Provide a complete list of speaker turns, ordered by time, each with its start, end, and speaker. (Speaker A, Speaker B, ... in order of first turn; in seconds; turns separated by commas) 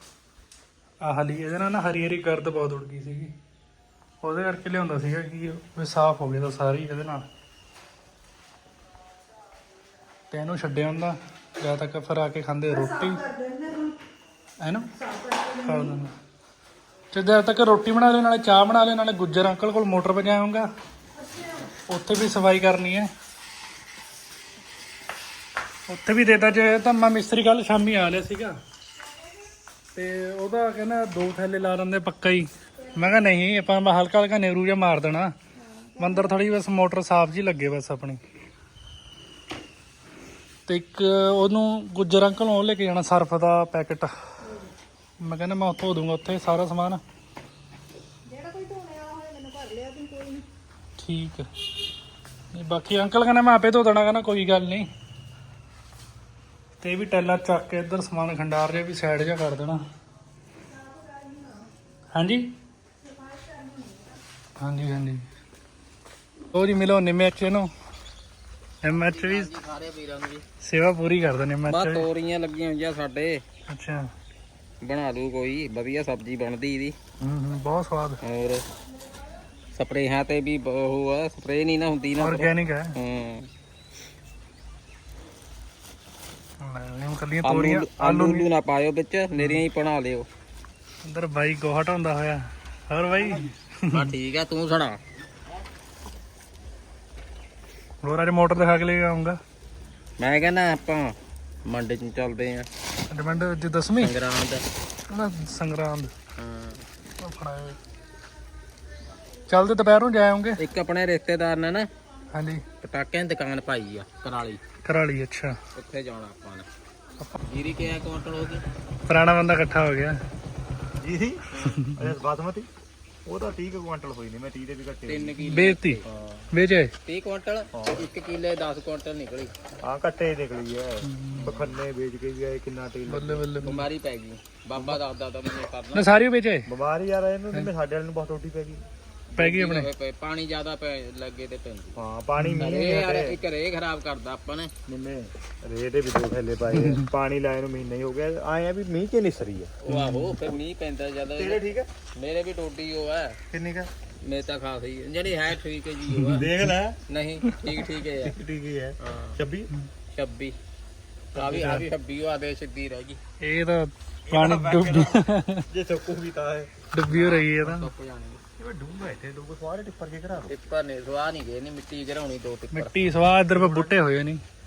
Speaker A: 1.0-3.3, Speaker A: 4.2-7.2, Speaker A: 10.3-13.2, Speaker B: 12.7-14.0, Speaker A: 14.6-14.9, Speaker B: 14.9-16.0, Speaker A: 15.6-16.1, Speaker A: 17.1-20.7, Speaker B: 21.1-21.7, Speaker A: 21.9-23.1, Speaker A: 25.9-28.6, Speaker A: 29.9-35.3, Speaker B: 35.5-36.4, Speaker A: 36.0-38.2, Speaker A: 40.6-44.1, Speaker B: 44.4-44.7, Speaker A: 45.2-47.0, Speaker B: 48.2-50.5, Speaker A: 51.0-51.5, Speaker A: 52.5-54.9, Speaker A: 56.8-59.8, Speaker B: 60.6-61.7, Speaker A: 62.1-62.5, Speaker B: 63.0-64.2, Speaker A: 64.6-65.2, Speaker A: 66.5-67.7, Speaker A: 68.8-69.5, Speaker C: 68.9-70.4, Speaker A: 70.6-72.1, Speaker C: 71.6-73.4, Speaker A: 73.7-74.1, Speaker C: 74.8-77.0, Speaker A: 77.2-78.2, Speaker C: 78.2-78.7, Speaker C: 79.7-83.5, Speaker A: 82.2-82.9, Speaker A: 86.6-88.5, Speaker C: 87.4-90.3, Speaker A: 89.3-89.6, Speaker A: 91.0-94.1, Speaker C: 93.9-95.0, Speaker A: 98.0-99.4, Speaker C: 100.2-102.7, Speaker A: 103.1-104.1, Speaker C: 104.0-104.6, Speaker A: 105.1-106.1, Speaker C: 106.4-106.8, Speaker A: 107.2-107.8, Speaker A: 109.5-110.6, Speaker C: 110.6-111.9, Speaker A: 112.3-112.6, Speaker C: 112.8-114.6, Speaker A: 114.8-115.6, Speaker C: 115.7-116.7, Speaker C: 117.5-118.6, Speaker A: 119.1-120.2, Speaker D: 121.0-122.7, Speaker C: 121.5-121.8, Speaker A: 121.7-122.0, Speaker D: 123.2-126.5, Speaker C: 125.1-126.0, Speaker A: 125.4-126.9, Speaker C: 127.0-129.5, Speaker D: 127.7-128.1, Speaker D: 129.8-133.5, Speaker A: 131.0-131.5, Speaker C: 131.3-131.7, Speaker A: 133.1-133.8, Speaker C: 133.6-136.1, Speaker A: 135.9-136.7, Speaker D: 136.7-138.8, Speaker A: 139.3-139.9, Speaker C: 139.3-141.9, Speaker D: 141.9-143.4, Speaker A: 142.4-142.6, Speaker C: 142.6-144.7, Speaker D: 144.9-149.7, Speaker A: 146.8-147.1, Speaker C: 149.8-151.6, Speaker A: 149.9-150.3, Speaker D: 151.3-151.9, Speaker C: 152.2-153.4, Speaker D: 153.5-153.9, Speaker C: 154.2-156.4, Speaker A: 156.1-156.4, Speaker D: 156.3-157.0, Speaker C: 157.1-158.3, Speaker D: 158.2-159.7, Speaker C: 159.0-159.4, Speaker C: 160.1-160.5, Speaker C: 161.3-163.2, Speaker D: 161.4-161.7, Speaker A: 161.4-161.8, Speaker A: 163.4-165.7, Speaker D: 164.2-166.7, Speaker A: 166.9-167.9, Speaker C: 167.1-168.4, Speaker D: 168.6-170.5, Speaker C: 170.5-173.1, Speaker A: 172.7-174.4, Speaker D: 173.5-173.9